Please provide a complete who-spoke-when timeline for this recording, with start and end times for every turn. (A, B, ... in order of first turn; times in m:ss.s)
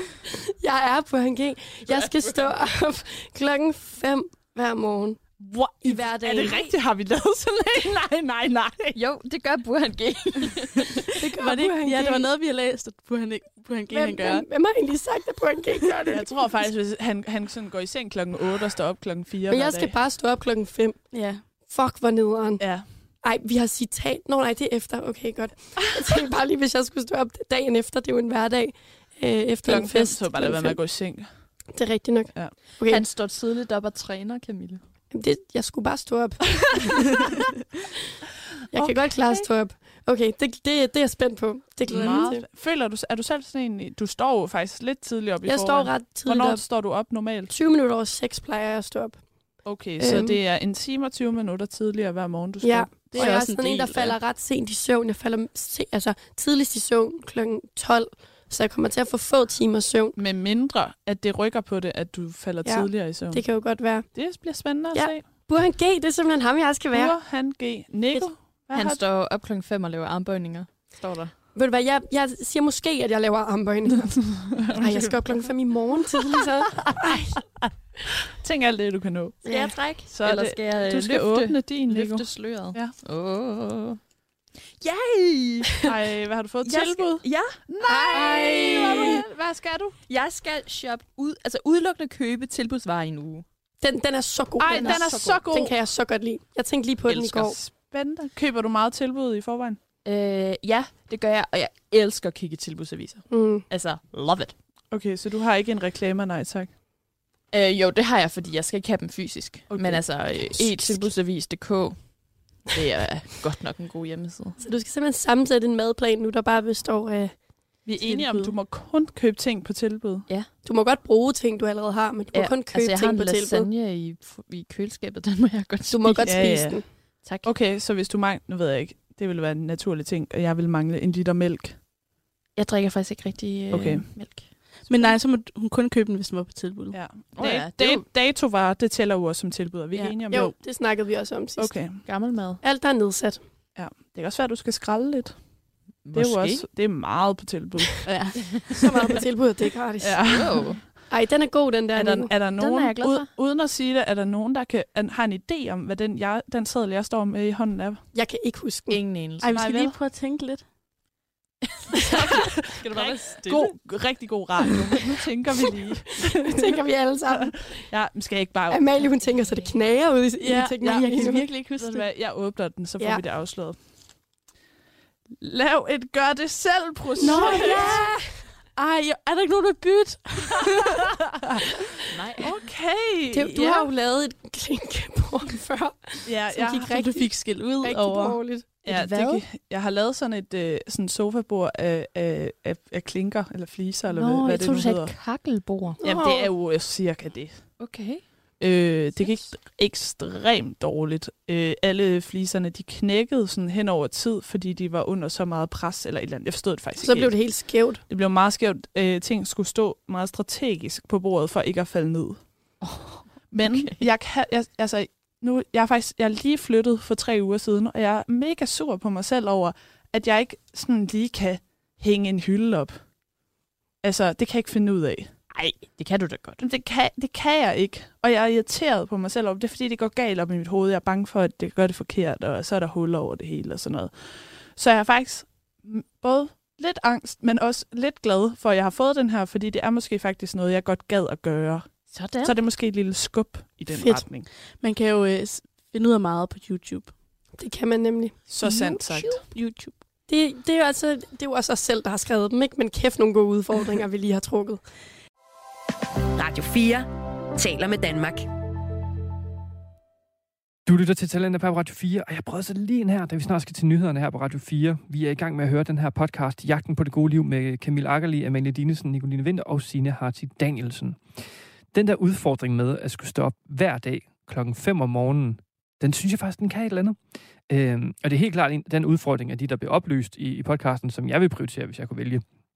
0:00.6-0:05.2 A
0:01.8-0:02.5 B
0:05.4-0:09.0 C
0:05.8-0:06.7 A
0:09.0-0:11.1 B
0:11.2-0:14.5 D
0:11.2-0:12.3 A
0:13.9-0:16.5 A
0:16.1-0:19.9 C
0:19.5-0:30.8 A
0:21.1-0:21.4 D
0:22.6-0:22.9 C
0:29.6-0:31.3 C
0:31.7-0:33.0 A
0:32.9-0:34.8 B
0:35.1-0:37.3 A
0:38.7-0:42.4 A
0:41.9-0:47.5 C
0:45.4-0:46.6 A
0:47.5-0:49.2 A
0:49.6-0:53.5 C
0:50.0-0:50.4 A
0:52.6-1:00.2 A
0:53.2-0:54.1 D
1:00.2-1:03.4 C
1:02.7-1:04.1 A
1:04.1-1:05.3 C
1:04.9-1:07.1 A
1:06.9-1:09.0 C
1:08.7-1:11.3 B
1:11.6-1:14.1 A
1:14.0-1:15.5 C
1:14.8-1:17.4 A
1:16.0-1:19.5 C
1:19.4-1:19.8 A
1:19.5-1:24.0 B
1:20.1-1:23.0 C
1:24.8-1:25.8 B
1:25.8-1:30.0 C
1:26.6-1:27.6 B
1:27.9-1:29.2 A
1:28.1-1:29.2 B
1:30.1-1:33.4 B
1:33.8-1:37.6 A
1:34.6-1:35.8 C
1:34.7-1:35.4 B
1:37.1-1:39.8 C
1:40.0-1:44.5 B
1:43.3-1:43.7 A
1:44.9-1:46.7 C
1:47.5-1:54.6 B
1:49.7-1:51.1 C
1:54.6-1:57.4 A
1:57.8-2:00.3 C
1:58.0-1:58.6 D
2:00.6-2:03.6 A
2:02.3-2:06.5 B
2:05.9-2:06.8 A
2:06.2-2:06.9 C
2:07.2-2:07.5 B
2:07.4-2:11.8 C
2:12.6-2:15.0 B
2:13.7-2:14.1 C
2:14.8-2:17.0 D
2:16.9-2:20.5 C
2:17.4-2:18.1 B
2:19.9-2:20.6 D
2:20.3-2:22.0 A
2:21.6-2:22.0 C
2:22.0-2:22.6 B
2:22.6-2:23.4 A
2:23.8-2:25.4 C
2:26.0-2:26.7 B
2:26.1-2:29.2 C
2:28.1-2:28.6 D
2:28.8-2:30.5 A
2:30.0-2:30.8 C
2:30.3-2:30.8 B
2:31.1-2:32.3 A
2:32.0-2:38.0 C
2:32.6-2:33.3 B
2:38.1-2:39.0 A
2:38.9-2:39.6 B
2:39.4-2:40.6 D
2:39.5-2:40.0 C
2:41.7-2:43.7 B
2:42.1-2:46.8 C
2:46.4-2:47.8 A
2:47.3-2:49.0 C
2:48.7-2:51.4 A
2:50.4-2:52.1 D
2:50.5-2:53.8 C
2:55.4-2:58.1 C
2:57.2-2:58.0 D
2:57.2-2:58.3 A
2:58.8-3:01.0 D
3:02.1-3:02.5 B
3:02.4-3:03.9 C
3:03.3-3:08.7 A
3:06.3-3:06.9 C
3:06.8-3:08.4 D
3:08.8-3:15.2 C
3:08.9-3:09.4 B
3:14.1-3:16.0 B
3:16.0-3:16.5 A
3:16.0-3:17.7 C
3:17.8-3:18.2 B
3:18.6-3:32.4 C
3:27.0-3:28.0 A
3:32.8-3:34.0 B
3:33.5-3:43.0 C
3:44.0-3:45.3 C
3:45.5-3:46.6 B
3:46.6-3:54.1 C
3:54.8-4:04.5 C
4:02.1-4:02.6 B
4:03.9-4:04.2 A
4:04.8-4:07.1 D
4:07.6-4:08.9 A
4:08.5-4:09.4 C
4:09.4-4:10.0 D
4:10.3-4:14.8 A
4:16.4-4:18.5 E
4:20.9-4:37.2 F
4:37.7-4:42.4 F